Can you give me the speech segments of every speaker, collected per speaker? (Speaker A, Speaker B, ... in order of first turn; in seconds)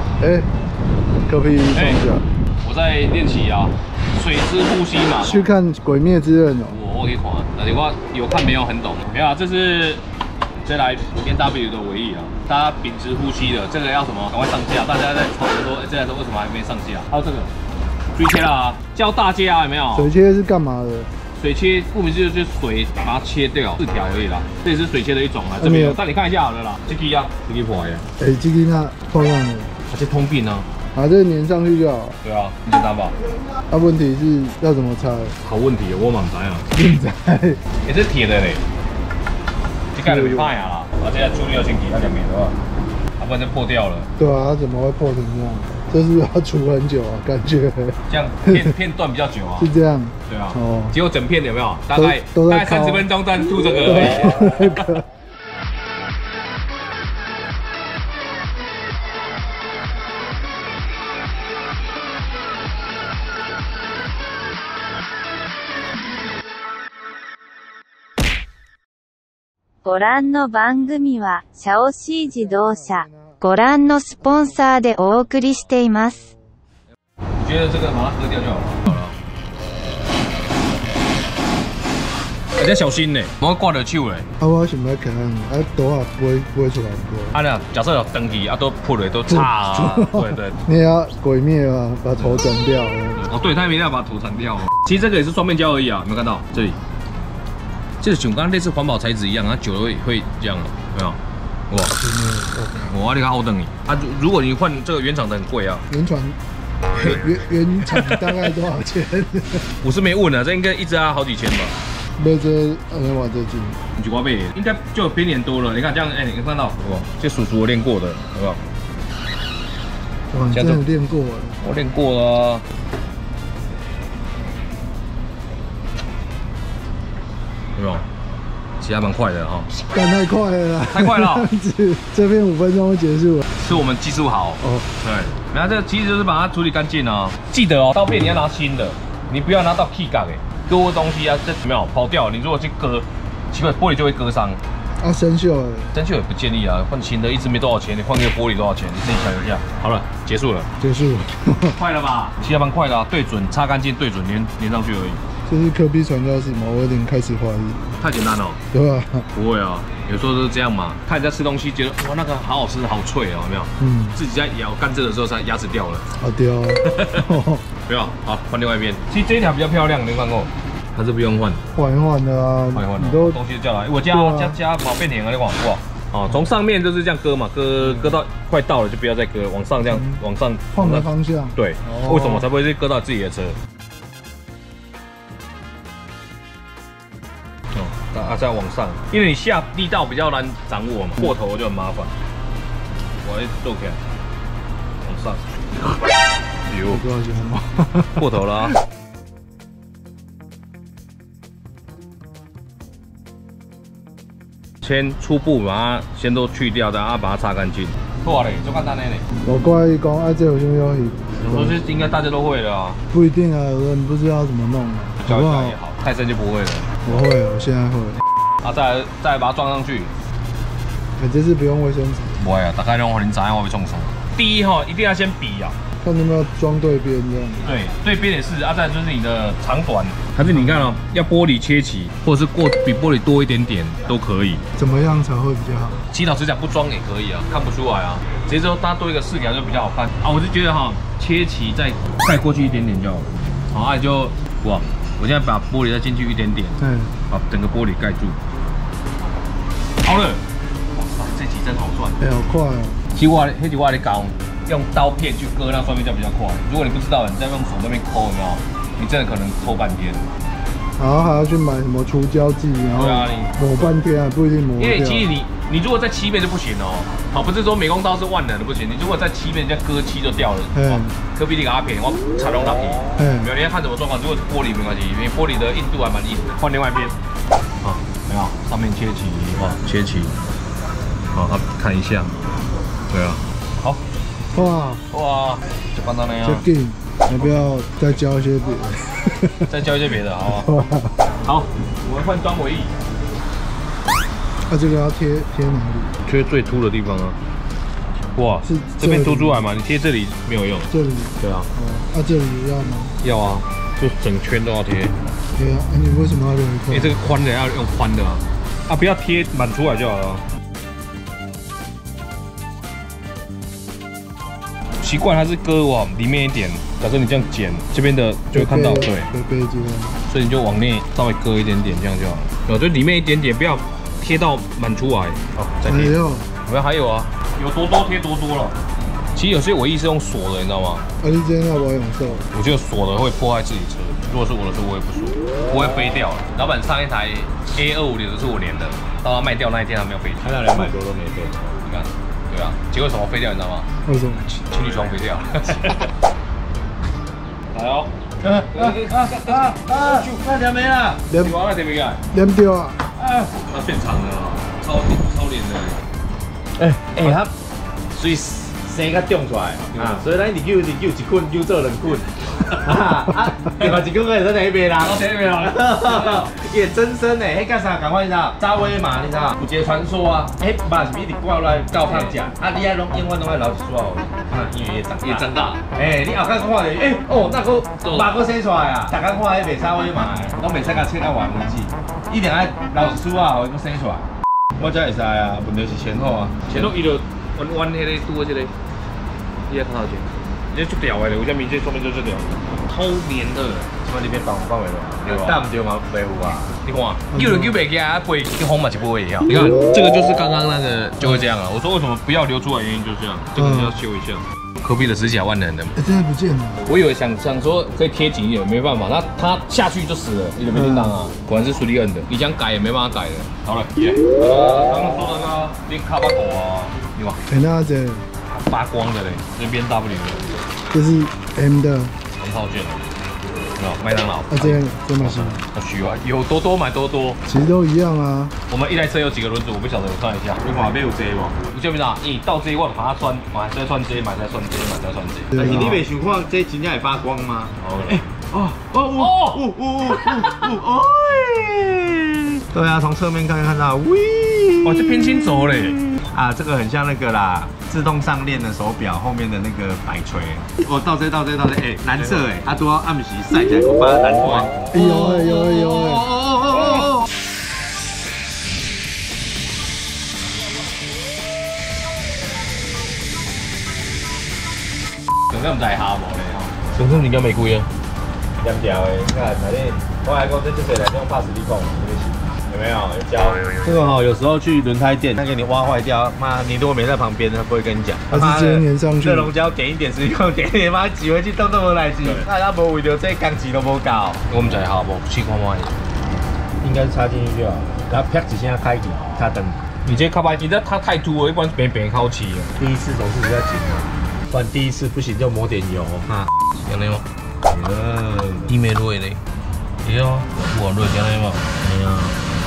Speaker A: 0.2-0.5, 1.3-2.2, 5.2-6.8, 19.9-21.1, 25.6-26.0, 28.2-29.7, 30.9-32.2, 33.7-35.4, 36.7-37.6, 40.0-40.5, 44.2-48.7, 49.6-51.0, 51.9-53.1, 53.8-55.0, 72.3-73.5, 74.2-75.5, 76.1-76.6, 84.4-87.4, 89.3-93.2, 102.0-102.9, 105.9-106.4, 107.0-109.7, 112.2-113.8, 120.3-121.6, 129.8-133.5, 145.0-145.9, 150.8-151.8, 155.5-158.0, 158.7-159.3, 163.8-164.2, 166.2-167.6, 171.7-173.4, 174.1-174.6, 177.8-178.2, 179.9-180.2, 180.7-182.5, 196.9-198.3, 209.4-211.8, 213.1-215.8, 217.0-218.2, 221.2-222.3, 226.0-227.7, 230.4-230.9, 234.8-236.0, 246.8-247.1, 252.2-253.0, 261.0-265.3, 270.7-271.2, 273.1-273.5, 284.5-285.0, 286.4-289.7, 290.5-291.2, 294.7-296.1, 298.6-299.7, 300.9-303.1, 305.6-307.2, 318.5-320.2, 325.9-326.5, 331.2-332.5, 344.1-344.6, 351.3-351.6, 352.3-353.0, 397.3-397.8, 403.6-404.0, 406.0-406.8, 410.7-411.3, 417.5-418.2, 420.9-422.1, 424.5-425.6, 427.5-428.6, 435.6-436.0, 454.9-456.3, 478.3-479.5
Speaker B: 1.7-2.0, 2.6-5.5, 6.7-10.0, 10.6-17.5, 18.1-20.1, 21.4-28.1, 29.9-30.7, 32.2-33.2, 35.4-36.7, 37.8-38.6, 39.9-42.6, 43.2-44.1, 48.1-49.7, 50.3-54.9, 77.4-79.2, 82.6-84.3, 87.3-90.6, 92.2-92.4, 93.2-96.8, 98.0-101.2, 101.7-102.0, 102.8-105.9, 107.8-108.5, 109.8-111.8, 114.0-118.6, 120.5-120.8, 121.6-122.6, 127.8-128.0, 128.8-129.7, 130.9-131.5, 133.6-144.6, 145.9-150.7, 151.8-155.2, 158.0-158.6, 159.3-166.1, 166.8-167.3, 167.9-171.6, 172.7-183.6, 187.7-192.1, 193.2-194.0, 195.0-195.7, 196.7-197.0, 198.2-198.8, 204.8-209.2, 211.4-213.0, 215.2-217.1, 218.6-220.1, 222.4-225.8, 227.6-234.7, 236.1-248.4, 250.0-250.4, 250.9-252.2, 253.1-260.3, 262.9-263.9, 264.8-277.1, 277.8-280.4, 281.3-282.3, 283.1-284.0, 285.1-286.7, 287.4-287.6, 289.7-290.7, 291.4-293.0, 296.2-297.4, 298.4-301.7, 303.2-305.2, 306.9-310.4, 315.0-319.3, 320.2-328.8, 329.3-331.1, 332.5-340.9, 341.7-343.9, 344.6-346.1, 347.7-348.1, 348.7-350.4, 351.3-352.2, 353.2-356.0, 359.9-360.3, 365.0-366.5, 369.7-370.3, 371.9-372.4, 375.2-375.8, 378.0-378.4, 380.2-380.5, 386.7-388.7, 389.7-394.0, 394.8-395.7, 396.8-406.0, 406.9-417.4, 418.5-420.5, 422.4-423.1, 423.8-427.4, 428.7-430.6, 431.6-436.0, 437.8-438.3, 439.1-439.6, 440.2-440.7, 444.8-446.0, 452.1-452.5, 454.4-454.9, 465.5-467.9, 482.2-482.5, 484.5-486.0, 490.0-492.8, 496.8-497.3, 498.7-499.4, 500.1-501.7
Speaker C: 69.8-76.2
Speaker D: 340.4-341.7, 348.4-351.2, 356.8-357.5, 358.1-386.7, 394.0-396.8, 430.6-431.6, 435.6-445.2, 446.2-457.3, 468.6-484.5, 486.8-489.9, 492.8-496.5, 497.7-498.7, 501.8-502.4